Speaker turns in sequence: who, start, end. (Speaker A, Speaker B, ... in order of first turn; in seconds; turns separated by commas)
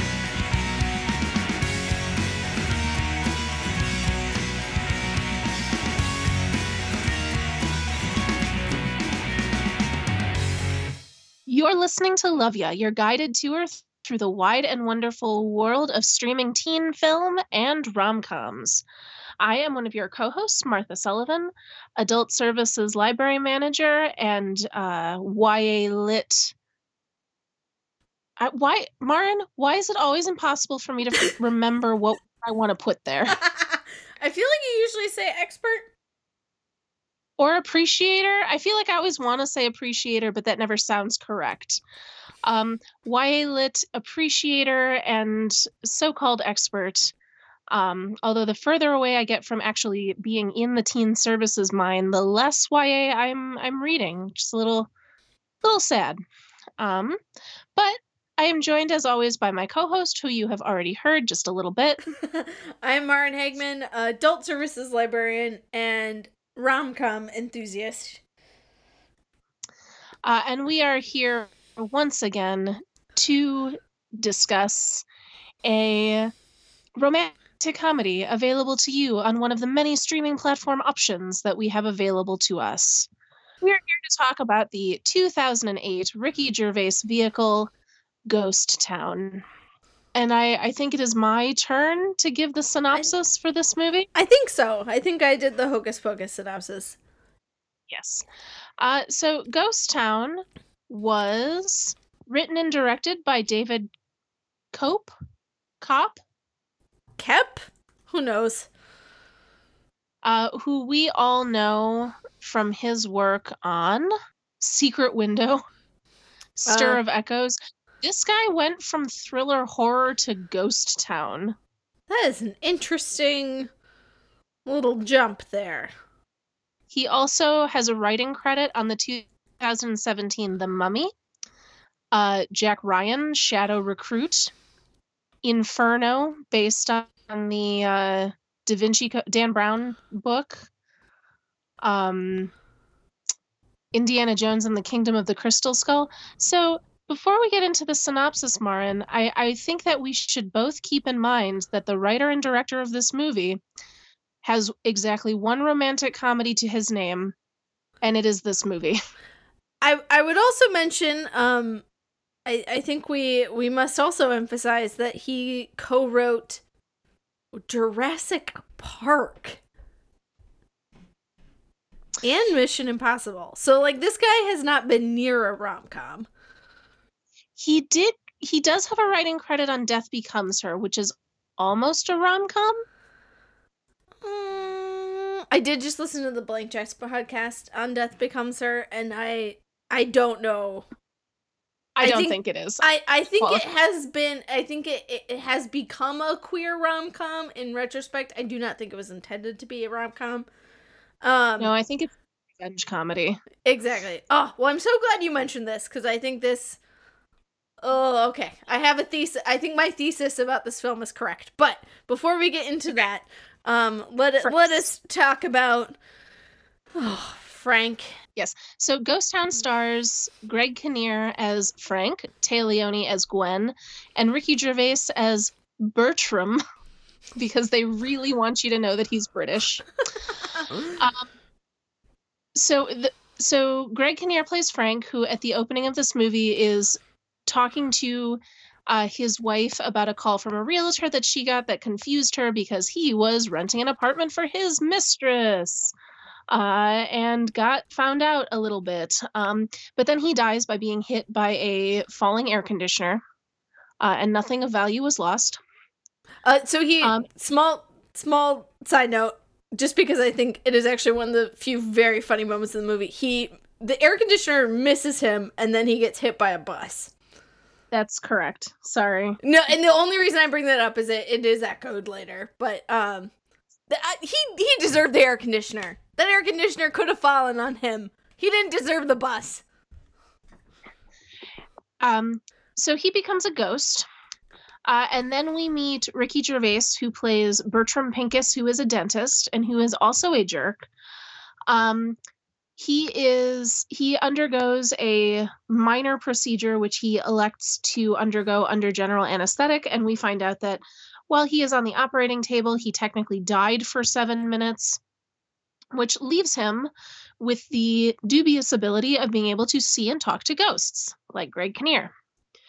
Speaker A: 11.5-18.8, Speaker A: 19.4-26.5, Speaker A: 28.4-33.4, Speaker B: 33.3-35.9, Speaker A: 37.4-41.8, Speaker A: 42.4-47.1, Speaker A: 47.7-54.9, Speaker A: 55.6-56.2, Speaker A: 56.8-57.2, Speaker A: 57.8-62.0, Speaker B: 62.1-68.2, Speaker A: 70.2-75.0, Speaker A: 75.6-76.3, Speaker A: 77.0-83.1, Speaker A: 83.6-87.7, Speaker A: 88.3-89.4, Speaker A: 90.1-94.1, Speaker B: 94.1-97.0, Speaker A: 97.9-98.3, Speaker A: 98.8-103.9, Speaker A: 104.7-105.1, Speaker A: 105.8-106.2, Speaker B: 107.2-108.7, Speaker A: 110.2-115.6, Speaker A: 116.6-121.5, Speaker B: 116.7-117.0, Speaker B: 122.1-123.7, Speaker B: 124.7-125.9, Speaker A: 126.9-131.1, Speaker A: 132.1-134.5, Speaker A: 135.4-140.7, Speaker A: 141.8-142.5, Speaker A: 143.9-153.6, Speaker A: 154.4-157.3, Speaker A: 158.0-159.0, Speaker B: 159.8-161.8, Speaker B: 162.4-166.6, Speaker B: 167.5-169.6, Speaker B: 172.2-176.3, Speaker A: 177.6-182.8, Speaker B: 184.2-190.8, Speaker A: 191.9-192.8, Speaker B: 192.0-200.5, Speaker A: 193.4-193.7, Speaker B: 201.2-201.7, Speaker A: 201.6-203.4, Speaker B: 203.6-206.8, Speaker B: 207.8-216.0, Speaker A: 214.4-214.8, Speaker B: 217.0-218.2, Speaker A: 218.3-226.6, Speaker A: 227.3-229.9, Speaker A: 230.8-231.3, Speaker A: 232.6-245.9, Speaker A: 246.5-253.2, Speaker A: 254.0-255.6, Speaker B: 256.4-267.1, Speaker A: 267.9-269.4, Speaker B: 269.4-273.3, Speaker B: 273.9-279.6, Speaker A: 282.0-284.1, Speaker A: 284.9-290.8, Speaker A: 291.7-292.2, Speaker A: 292.8-305.0, Speaker A: 305.9-312.1